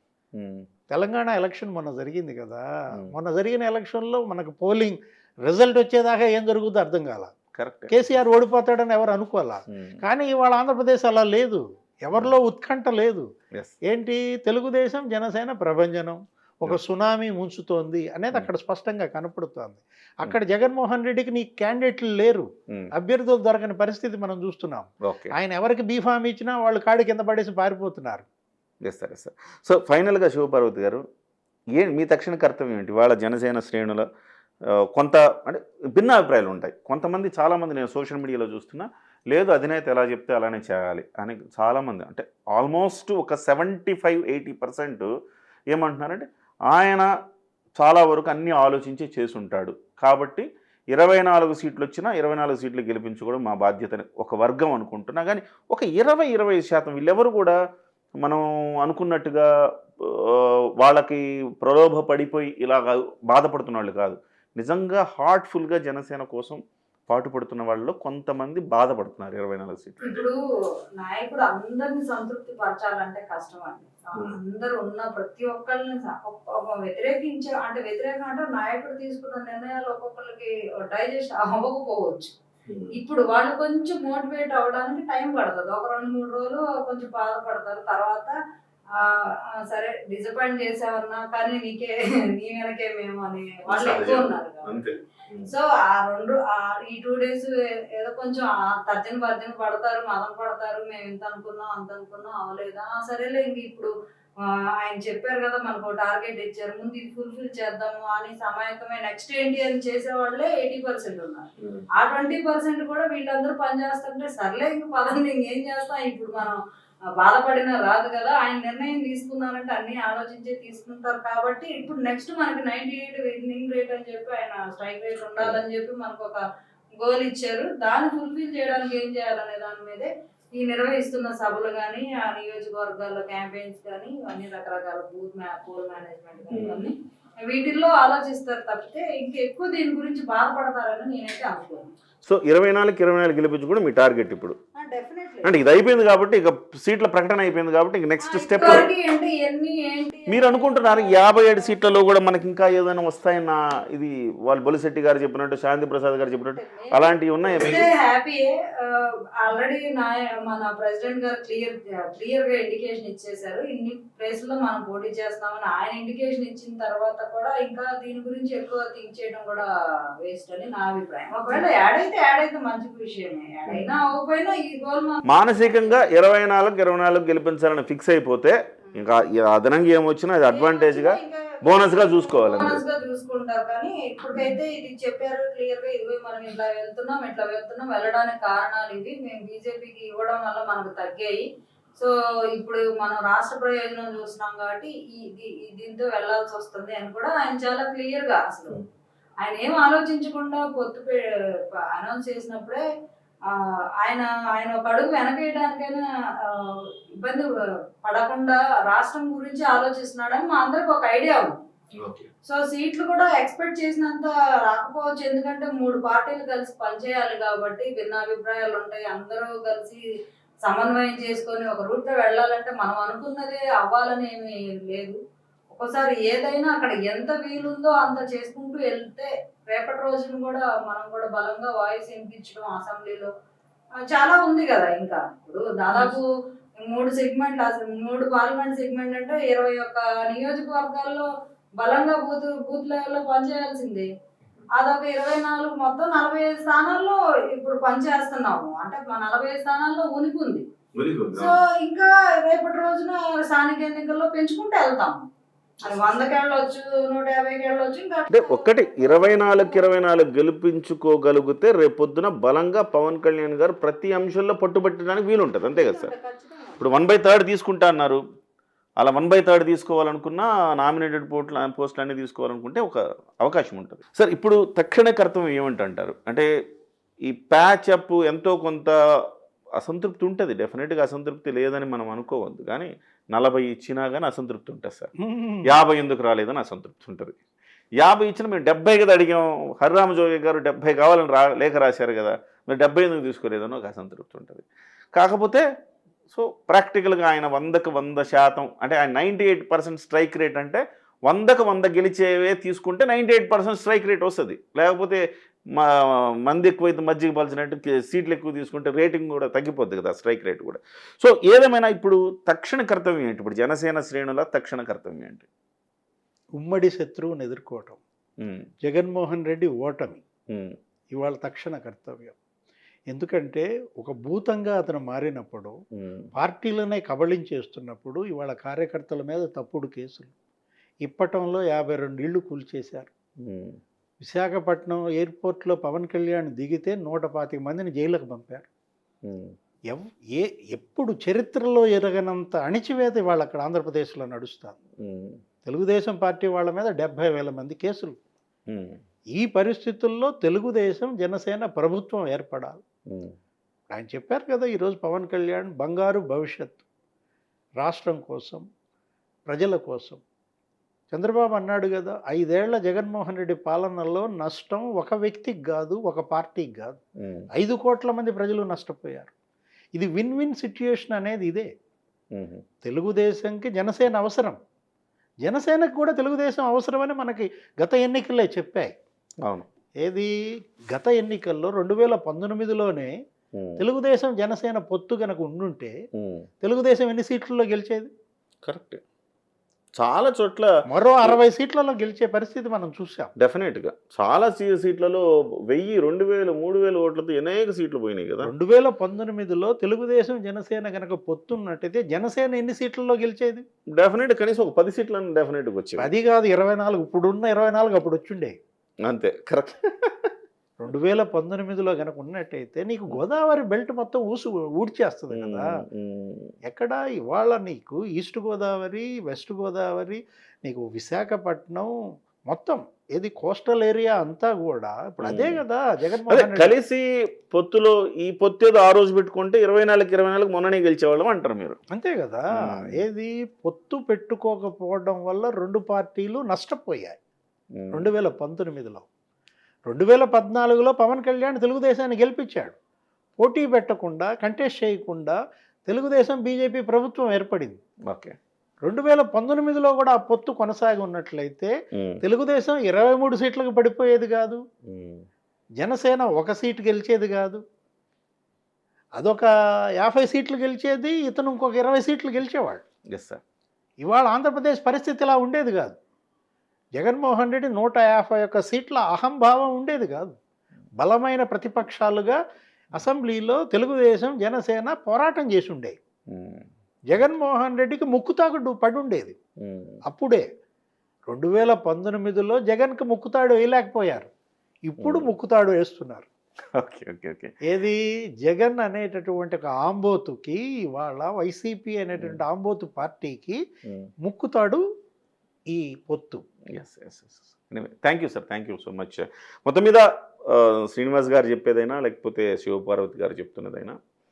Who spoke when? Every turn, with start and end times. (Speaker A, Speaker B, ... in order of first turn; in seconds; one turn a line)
Speaker A: 0.4-0.7
Speaker B: 0.9-7.3
Speaker A: 7.5-7.9
Speaker B: 7.9-13.3
Speaker A: 9.7-10.0
Speaker B: 13.9-28.3
Speaker A: 25.0-25.4
Speaker A: 28.8-31.0
Speaker A: 31.8-34.1
Speaker A: 34.8-45.1
Speaker A: 45.7-47.1
Speaker A: 47.8-57.6
Speaker A: 58.2-59.5
Speaker A: 60.0-70.2
Speaker C: 70.0-70.4
Speaker C: 71.0-82.3
Speaker A: 82.7-83.0
Speaker C: 82.9-88.3
Speaker C: 88.9-94.9
Speaker A: 93.7-95.5
Speaker C: 95.5-103.9
Speaker C: 104.4-116.6
Speaker A: 111.6-111.8
Speaker C: 117.2-126.5
Speaker C: 127.0-141.9
Speaker A: 136.5-136.9
Speaker A: 142.2-144.6
Speaker C: 144.8-145.7
Speaker A: 145.4-148.9
Speaker C: 148.2-151.8
Speaker A: 150.3-157.9
Speaker C: 156.6-169.7
Speaker C: 170.2-176.1
Speaker A: 173.7-174.0
Speaker A: 175.3-182.8
Speaker C: 180.5-198.8
Speaker C: 199.4-201.2
Speaker C: 201.9-202.8
Speaker C: 203.5-207.5
Speaker C: 208.0-211.6
Speaker A: 211.9-212.3
Speaker C: 212.4-220.0
Speaker C: 220.6-225.2
Speaker C: 225.7-233.3
Speaker C: 234.1-236.3
Speaker C: 236.8-244.1
Speaker C: 244.7-250.7
Speaker A: 250.9-251.6
Speaker C: 251.4-255.3
Speaker A: 255.8-256.2
Speaker C: 255.8-260.3
Speaker A: 258.3-266.1
Speaker C: 265.7-266.9
Speaker A: 266.8-268.2
Speaker A: 269.0-276.5
Speaker A: 277.2-278.9
Speaker A: 279.8-285.1
Speaker B: 285.2-285.8
Speaker A: 285.6-287.4
Speaker A: 288.0-295.7
Speaker A: 296.3-315.5
Speaker B: 316.6-318.0
Speaker A: 318.4-318.7
Speaker B: 318.8-320.2
Speaker A: 320.5-320.8
Speaker B: 321.1-322.4
Speaker B: 323.1-325.8
Speaker A: 325.9-326.3
Speaker B: 326.3-330.4
Speaker B: 331.0-333.1
Speaker A: 333.4-333.8
Speaker B: 334.2-338.7
Speaker A: 339.3-339.5
Speaker B: 339.9-344.8
Speaker A: 345.0-345.4
Speaker B: 345.6-348.2
Speaker A: 348.7-349.0
Speaker B: 349.3-352.8
Speaker A: 353.1-353.4
Speaker B: 353.9-356.9
Speaker B: 357.8-358.6
Speaker B: 359.5-360.2
Speaker B: 361.1-367.0
Speaker A: 367.2-367.5
Speaker B: 367.6-369.3
Speaker B: 370.0-371.7
Speaker A: 372.3-372.6
Speaker B: 372.8-374.6
Speaker B: 375.4-378.9
Speaker B: 380.0-380.3
Speaker B: 380.9-383.1
Speaker A: 383.6-383.8
Speaker B: 383.8-385.9
Speaker A: 386.1-386.5
Speaker B: 386.6-388.1
Speaker A: 388.6-389.0
Speaker A: 390.0-391.4
Speaker B: 390.9-393.3
Speaker A: 393.4-398.5
Speaker B: 398.4-403.6
Speaker A: 403.9-406.1
Speaker B: 406.0-408.6
Speaker A: 409.1-410.3
Speaker B: 410.8-415.7
Speaker A: 415.3-416.5
Speaker B: 416.7-421.9
Speaker B: 422.5-426.7
Speaker A: 425.2-425.6
Speaker A: 426.3-431.8
Speaker B: 431.9-437.2
Speaker A: 432.6-432.9
Speaker A: 437.8-438.1
Speaker B: 437.9-439.1
Speaker B: 439.9-442.8
Speaker B: 443.4-447.8
Speaker A: 448.1-448.4
Speaker B: 448.8-454.6
Speaker A: 451.9-452.2
Speaker A: 454.9-455.2
Speaker B: 455.8-457.6
Speaker B: 459.2-462.8
Speaker A: 463.1-463.4
Speaker B: 464.0-466.0
Speaker B: 467.0-470.4
Speaker B: 471.0-472.4
Speaker B: 473.0-476.0
Speaker A: 476.3-476.7
Speaker B: 477.1-479.4
Speaker A: 479.6-480.0
Speaker B: 480.1-480.5
Speaker B: 481.3-484.3
Speaker B: 484.9-486.3
Speaker A: 485.0-485.3
Speaker A: 486.8-487.6
Speaker B: 487.6-493.6
Speaker A: 493.9-494.1
Speaker B: 494.2-494.8
Speaker B: 495.7-496.4
Speaker A: 496.7-504.0